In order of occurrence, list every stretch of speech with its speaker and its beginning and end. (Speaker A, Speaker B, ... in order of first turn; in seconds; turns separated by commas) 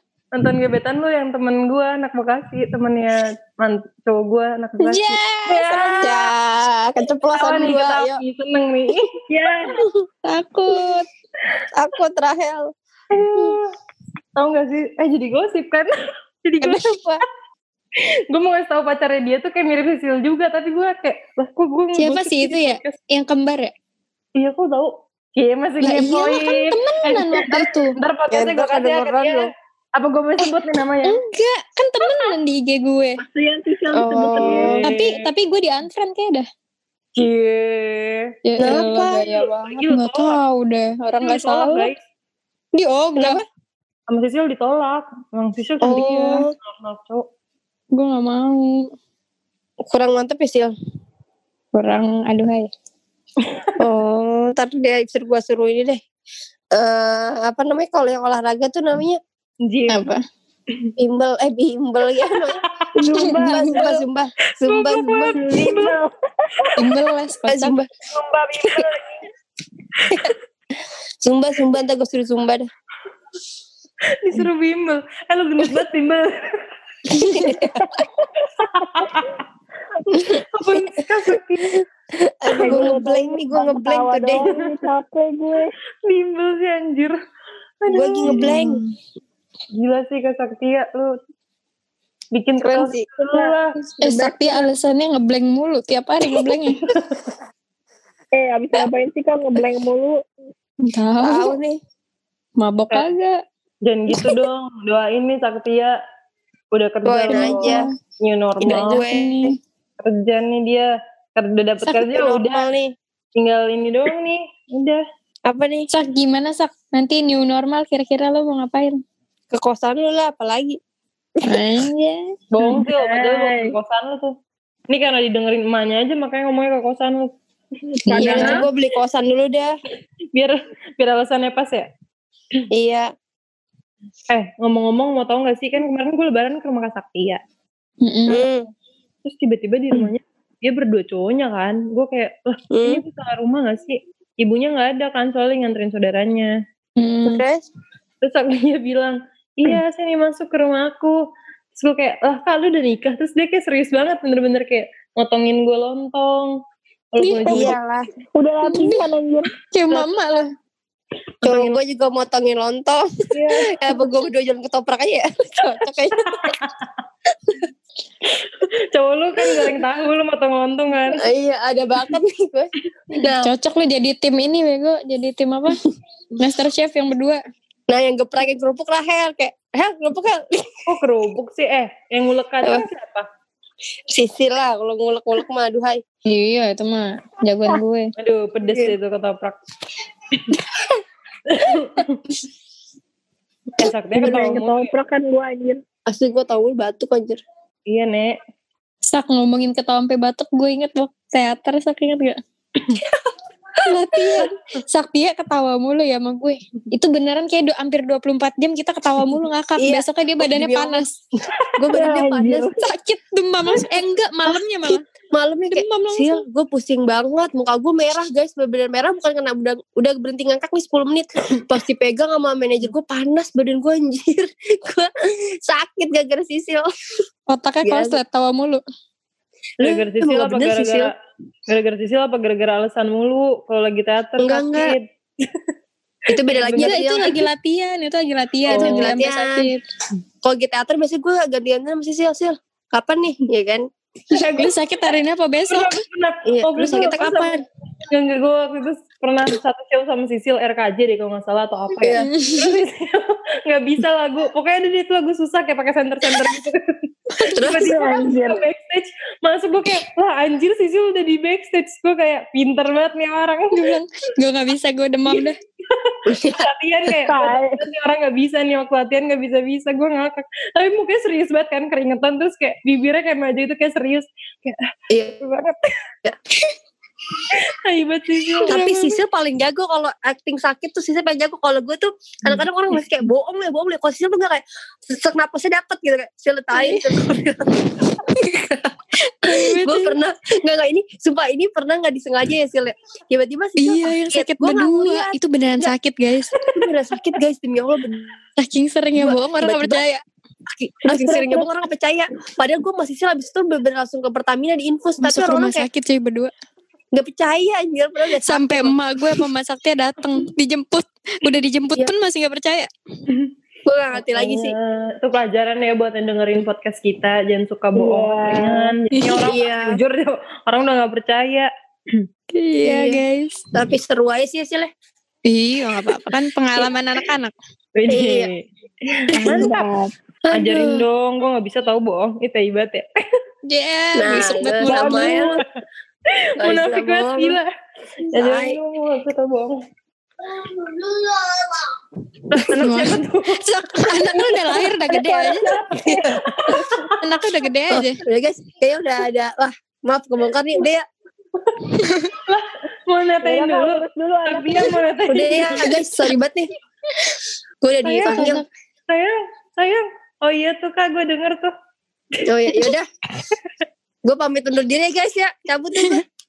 Speaker A: 0.3-6.2, Speaker B: 4.8-6.3, Speaker C: 6.0-8.2, Speaker A: 7.3-9.2, Speaker D: 9.3-9.8, Speaker C: 9.8-10.1, Speaker B: 10.2-11.1, Speaker C: 11.7-12.7, Speaker A: 13.1-13.8, Speaker A: 14.4-15.9, Speaker A: 16.4-17.0, Speaker C: 16.6-17.2, Speaker A: 18.0-23.0, Speaker B: 21.9-23.7, Speaker A: 24.4-31.2, Speaker B: 25.8-28.0, Speaker C: 28.3-29.5, Speaker B: 31.1-33.2, Speaker D: 33.2-34.9, Speaker C: 33.9-34.8, Speaker A: 34.4-35.3, Speaker B: 34.8-36.5, Speaker A: 37.2-40.4, Speaker B: 38.5-41.9, Speaker C: 38.6-39.2, Speaker A: 41.2-42.0, Speaker B: 42.7-43.4, Speaker C: 43.2-43.4, Speaker A: 44.1-47.3, Speaker C: 45.8-46.5, Speaker B: 47.9-48.9, Speaker C: 49.9-50.7, Speaker B: 51.7-52.7, Speaker A: 53.4-53.8, Speaker C: 53.8-56.0, Speaker C: 56.7-59.2, Speaker A: 59.6-60.1, Speaker B: 59.9-60.2, Speaker C: 61.0-62.6, Speaker A: 62.4-62.9, Speaker D: 63.0-64.0, Speaker C: 63.1-65.4, Speaker B: 63.2-63.6, Speaker A: 64.7-66.0, Speaker D: 65.3-66.7, Speaker B: 66.8-67.8, Speaker C: 67.5-67.9, Speaker D: 68.1-69.2, Speaker C: 71.2-72.7, Speaker A: 74.2-76.6, Speaker C: 77.1-77.9, Speaker D: 78.0-79.3, Speaker A: 78.8-79.3, Speaker C: 80.1-80.9, Speaker A: 80.4-81.8, Speaker C: 82.2-84.5, Speaker D: 82.5-85.7, Speaker A: 82.6-83.0, Speaker A: 86.1-87.2, Speaker A: 87.8-88.7, Speaker C: 87.9-88.8, Speaker B: 88.3-88.9, Speaker A: 89.8-91.2, Speaker A: 92.3-93.8, Speaker C: 92.6-93.1, Speaker D: 94.0-94.7, Speaker B: 94.0-96.9, Speaker A: 96.9-97.3, Speaker D: 98.3-100.2, Speaker B: 100.8-101.6, Speaker C: 101.2-101.8, Speaker B: 102.6-103.4, Speaker A: 103.8-106.0, Speaker A: 106.7-109.1, Speaker C: 107.1-107.9, Speaker B: 107.3-107.9, Speaker C: 108.6-109.5, Speaker B: 108.6-109.6, Speaker A: 110.0-112.7, Speaker C: 111.9-112.9, Speaker A: 113.4-115.0, Speaker C: 115.5-115.9, Speaker B: 115.9-119.0, Speaker C: 119.5-120.8, Speaker B: 121.4-122.3, Speaker A: 122.5-124.3, Speaker D: 122.6-123.8, Speaker A: 124.9-127.4, Speaker D: 127.9-128.6, Speaker B: 128.1-128.6, Speaker C: 128.2-129.8, Speaker A: 128.2-128.6, Speaker A: 130.3-131.9, Speaker C: 132.7-133.1, Speaker A: 134.3-137.4, Speaker B: 138.0-138.4, Speaker C: 138.3-138.7, Speaker A: 139.2-146.6, Speaker C: 142.7-143.0, Speaker B: 147.0-147.4, Speaker C: 147.2-147.7, Speaker A: 148.2-151.2, Speaker A: 151.8-156.6, Speaker A: 157.1-157.8, Speaker B: 157.2-157.8, Speaker C: 157.5-158.1, Speaker D: 158.4-159.5, Speaker B: 158.7-159.1, Speaker B: 159.7-160.5, Speaker C: 161.4-166.6, Speaker A: 161.4-161.8, Speaker A: 163.3-163.7, Speaker A: 166.3-166.9, Speaker A: 168.3-171.3, Speaker C: 169.4-169.8, Speaker C: 171.1-173.5, Speaker B: 173.4-175.8, Speaker B: 176.4-177.4, Speaker C: 177.9-180.8, Speaker A: 180.9-183.3, Speaker C: 184.1-186.0, Speaker B: 186.3-188.1, Speaker A: 188.2-189.6, Speaker A: 191.5-192.2, Speaker A: 193.8-194.9, Speaker C: 193.8-194.6, Speaker D: 194.1-195.8, Speaker C: 196.1-197.4, Speaker A: 197.9-198.4, Speaker B: 199.1-202.4, Speaker A: 202.8-203.2, Speaker B: 203.8-211.1, Speaker A: 204.3-204.8, Speaker C: 209.8-211.1, Speaker C: 211.8-212.7, Speaker D: 211.9-212.8, Speaker B: 212.8-215.0, Speaker C: 215.3-226.9, Speaker B: 215.7-216.4, Speaker B: 227.5-228.8, Speaker C: 227.8-228.2, Speaker A: 229.8-231.1, Speaker C: 229.8-231.1, Speaker A: 231.7-235.6, Speaker C: 234.4-235.0, Speaker C: 236.3-237.4, Speaker A: 236.4-237.3, Speaker B: 236.7-239.8, Speaker A: 238.7-239.2, Speaker C: 238.7-239.7, Speaker C: 240.4-244.7, Speaker A: 244.3-244.7, Speaker B: 244.6-246.0, Speaker A: 245.7-263.9, Speaker C: 246.5-247.6, Speaker C: 252.0-252.3, Speaker B: 252.2-252.8, Speaker C: 257.3-258.0, Speaker D: 257.7-258.6, Speaker B: 263.7-265.6, Speaker A: 265.3-274.8, Speaker C: 266.3-267.1, Speaker D: 267.3-267.8, Speaker C: 275.1-275.4, Speaker A: 275.4-275.9, Speaker A: 277.7-279.2, Speaker C: 278.6-288.9, Speaker B: 286.7-287.1, Speaker B: 289.4-290.2, Speaker C: 289.4-295.4, Speaker B: 293.8-296.5, Speaker C: 296.7-298.4, Speaker B: 298.6-300.2, Speaker C: 299.2-300.1, Speaker C: 300.7-305.9, Speaker B: 305.2-306.5, Speaker C: 307.1-308.9, Speaker B: 308.4-312.9, Speaker C: 313.9-314.8, Speaker A: 314.1-322.2, Speaker D: 318.0-318.9, Speaker B: 319.1-319.5, Speaker C: 319.4-320.0, Speaker B: 322.5-323.7, Speaker C: 322.8-323.2, Speaker C: 323.7-324.9, Speaker B: 325.5-327.5, Speaker A: 327.9-329.9, Speaker C: 328.1-328.5, Speaker C: 329.3-329.7, Speaker D: 329.4-330.1, Speaker C: 330.5-331.1, Speaker A: 330.5-333.2, Speaker B: 333.7-335.5, Speaker C: 334.1-335.6, Speaker A: 334.3-335.6, Speaker A: 336.4-337.7, Speaker C: 336.6-337.6, Speaker C: 338.3-338.8, Speaker A: 338.3-339.8, Speaker C: 340.5-341.9, Speaker A: 342.5-343.6, Speaker B: 342.8-345.7, Speaker C: 344.2-344.5, Speaker D: 345.1-346.3, Speaker C: 346.0-346.9, Speaker A: 346.6-347.2, Speaker B: 347.2-348.2, Speaker C: 347.9-351.1, Speaker A: 351.6-356.0, Speaker D: 353.4-354.9, Speaker C: 355.3-356.7, Speaker C: 357.8-358.6, Speaker A: 358.0-361.7, Speaker B: 358.2-358.6, Speaker A: 362.4-362.9, Speaker C: 362.5-363.1, Speaker C: 364.2-366.2